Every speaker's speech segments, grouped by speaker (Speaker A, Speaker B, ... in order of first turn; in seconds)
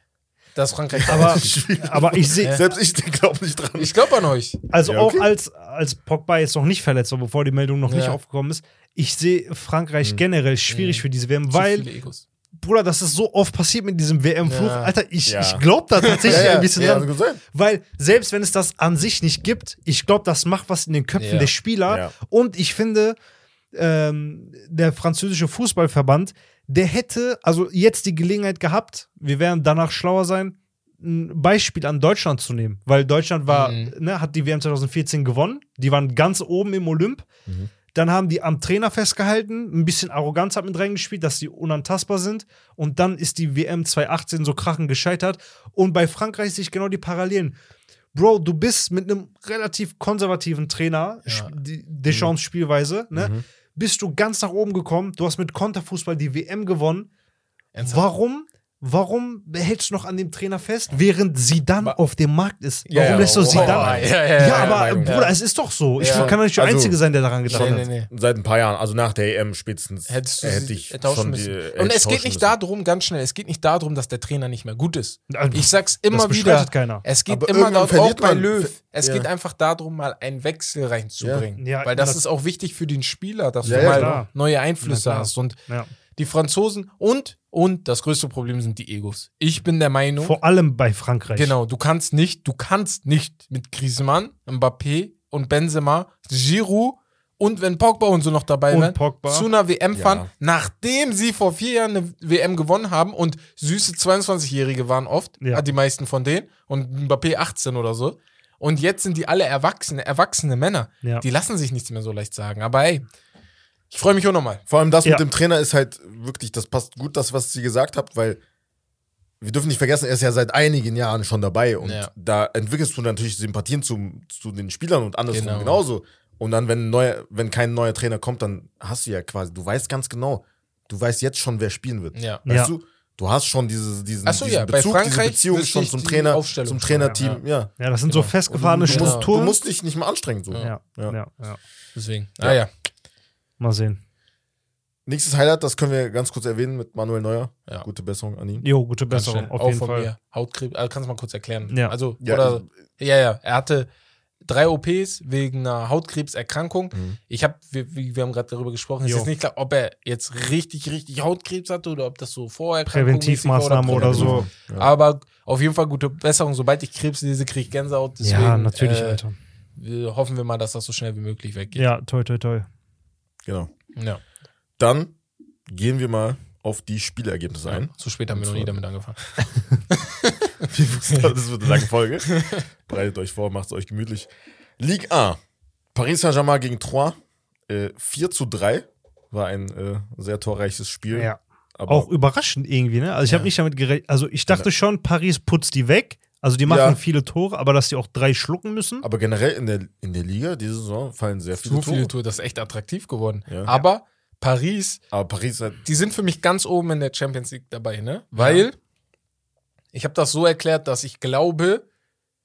Speaker A: 0.6-1.6, 2.4-2.6, 3.8-4.6, 7.9-8.2, 10.7-12.2, 14.4-14.9, 16.0-17.0, 21.2-21.5, 33.5-33.9, 51.3-51.5, 57.7-58.1, 62.9-65.4, 66.0-66.4, 67.5-68.1, 70.1-85.6, 86.2-90.4, 91.3-113.0, 113.9-114.6, 121.8-122.1, 125.3-125.8, 132.2-132.4, 134.2-137.4, 138.1-139.3, 141.9-142.7, 149.1-153.9, 154.4-169.2, 169.8-171.9, 177.7-179.3, 179.9-181.3, 182.3-182.6, 201.6-205.0, 205.8-208.8, 209.9-211.8
Speaker B: 0.9-4.0, 4.8-5.3, 15.3-15.6, 16.2-17.4, 21.9-22.1, 52.1-52.3, 53.1-53.4, 62.9-65.2, 66.0-72.5, 77.3-79.3, 81.2-81.5, 83.7-84.2, 99.9-100.3, 114.7-118.4, 119.4-137.7, 138.5-141.2, 145.1-148.7, 152.2-152.7, 163.9-164.9, 173.4-173.7, 174.8-175.1, 175.7-178.8, 180.7-185.4, 185.9-187.2, 187.7-192.1, 196.7-197.0, 199.0-202.1, 203.5-203.8, 205.1-205.8
Speaker C: 1.1-2.7, 4.7-11.9, 12.6-23.2, 23.8-37.3, 37.9-47.6, 48.1-57.1, 57.8-67.9, 75.3-77.0, 81.6-82.2, 83.6-84.3, 84.8-85.9, 90.2-91.5, 98.7-99.5, 132.5-132.7, 137.8-139.6, 140.6-141.6, 143.6-144.0, 148.6-150.1, 151.7-151.9, 162.9-164.5, 168.2-169.3, 171.8-172.7, 191.1-199.1, 208.4-208.7